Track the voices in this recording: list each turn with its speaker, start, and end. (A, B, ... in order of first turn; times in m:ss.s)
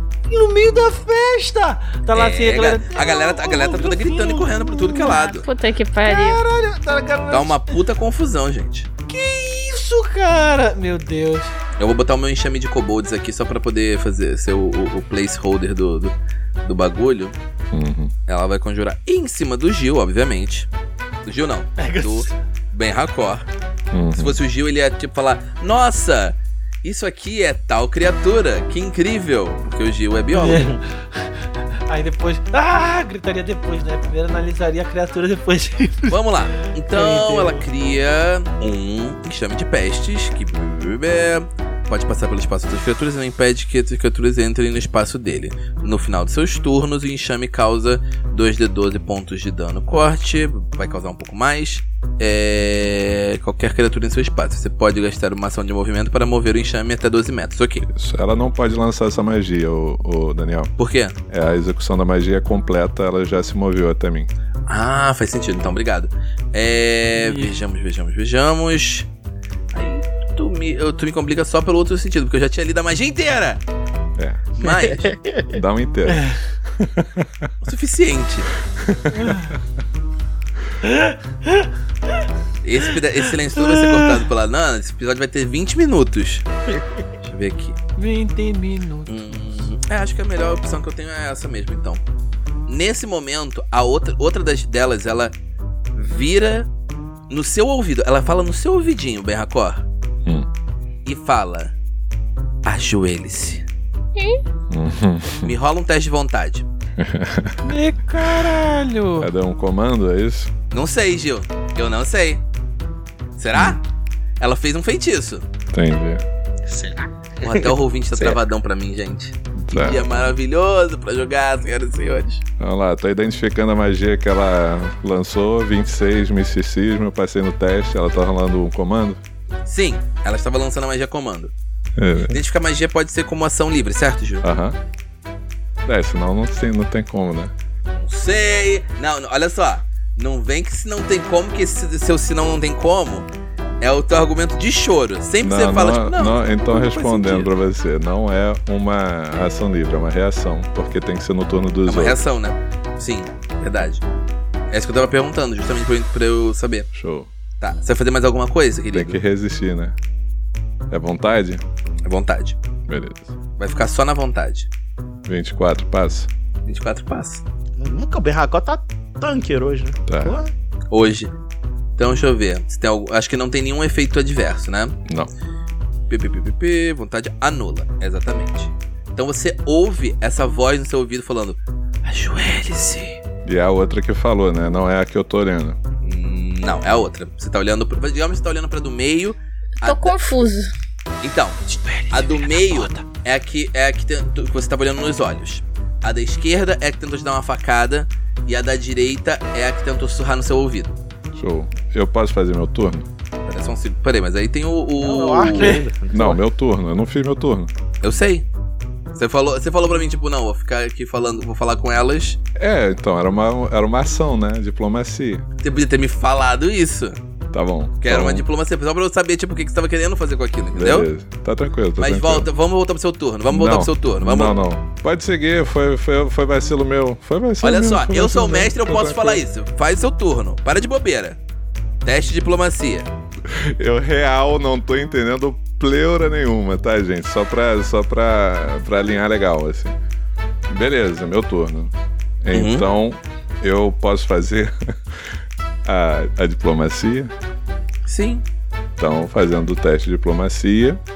0:00.3-0:05.2 A
0:02.1-0:05.4 B
0:04.9-0:06.4 C
0:06.0-0:07.7 A
0:07.3-0:08.9 B
0:09.1-0:11.5 A
0:11.8-0:17.4 B
0:17.7-0:18.1 D
0:18.3-0:20.7 B
0:21.2-0:23.4 B
0:21.8-0:22.3 A
0:23.9-0:24.4 D
0:24.1-0:30.7 B
0:30.3-0:31.3 A
0:30.5-0:30.8 E
0:31.9-0:36.2 A
0:36.1-0:57.8 B
0:36.9-0:37.6 A
0:57.8-1:00.7 D
1:00.8-1:01.1 B
1:01.3-1:04.3 D
1:04.7-1:09.1 B
1:07.3-1:07.5 A
1:09.7-1:13.6 B
1:14.2-1:14.5 D
1:14.6-1:15.2 B
1:14.6-1:15.6 E
1:15.5-1:17.5 D
1:16.1-1:16.4 A
1:17.6-1:18.5 B
1:18.8-1:19.5 D
1:19.2-1:19.5 A
1:20.8-1:21.7 A
1:22.6-1:26.4 B
1:23.6-1:24.2 A
1:26.7-1:27.0 E
1:27.2-1:27.8 B
1:28.0-1:29.6 A
1:29.1-1:32.0 B
1:32.7-1:35.3 B
1:35.9-1:36.7 B
1:37.3-1:39.8 B
1:41.0-1:41.7 B
1:42.6-1:43.7 B
1:44.7-1:45.5 D
1:45.4-1:46.6 B
1:47.0-1:47.7 D
1:47.6-1:49.3 A
1:48.2-1:48.5 D
1:49.2-1:50.5 D
1:50.7-1:52.4 B
1:53.4-1:53.8 B
1:54.4-1:55.5 B
1:55.7-1:56.2 D
1:56.6-1:57.7 E
1:57.4-2:02.4 B
1:59.6-2:00.3 D
2:02.6-2:09.2 D
2:09.6-2:11.5 B
2:12.0-2:12.4 D
2:12.3-2:14.5 B
2:14.4-2:14.8 D
2:15.8-2:17.5 D
2:17.9-2:23.3 B
2:23.8-2:27.5 B
2:25.4-2:32.2 D
2:31.8-2:34.0 B
2:34.7-2:36.9 B
2:36.9-2:37.3 D
2:37.6-2:39.2 B
2:38.9-2:39.9 D
2:40.9-2:41.6 D
2:42.0-2:42.6 B
2:42.9-2:43.3 D
2:43.6-2:44.7 B
2:45.2-2:46.3 D
2:46.6-2:47.4 B
2:47.8-2:50.5 E
2:50.1-2:50.4 D
2:50.9-2:51.3 B
2:52.0-2:55.0 B
2:55.0-2:55.3 D
2:56.1-3:03.2 B
3:03.4-3:05.8 D
3:06.0-3:10.2 B
3:09.8-3:10.7 C
3:11.2-3:21.0 B
3:11.7-3:13.0 A
3:21.3-3:23.1 D
3:23.5-3:25.8 B
3:25.0-3:25.8 A
3:25.2-3:26.4 E
3:26.1-3:27.7 D
3:28.0-3:28.4 B
3:29.1-3:32.4 B
3:32.6-3:35.4 D
3:35.6-3:37.2 B
3:37.5-3:38.4 D
3:38.0-3:41.1 B
3:40.7-3:42.5 D
3:42.0-3:44.5 B
3:43.5-3:49.4 D
3:47.6-3:51.4 B
3:52.0-3:53.1 B
3:53.5-4:00.0 D
4:00.7-4:05.3 D
4:02.5-4:02.8 B
4:05.8-4:07.3 D
4:08.0-4:08.4 B
4:09.0-4:11.0 D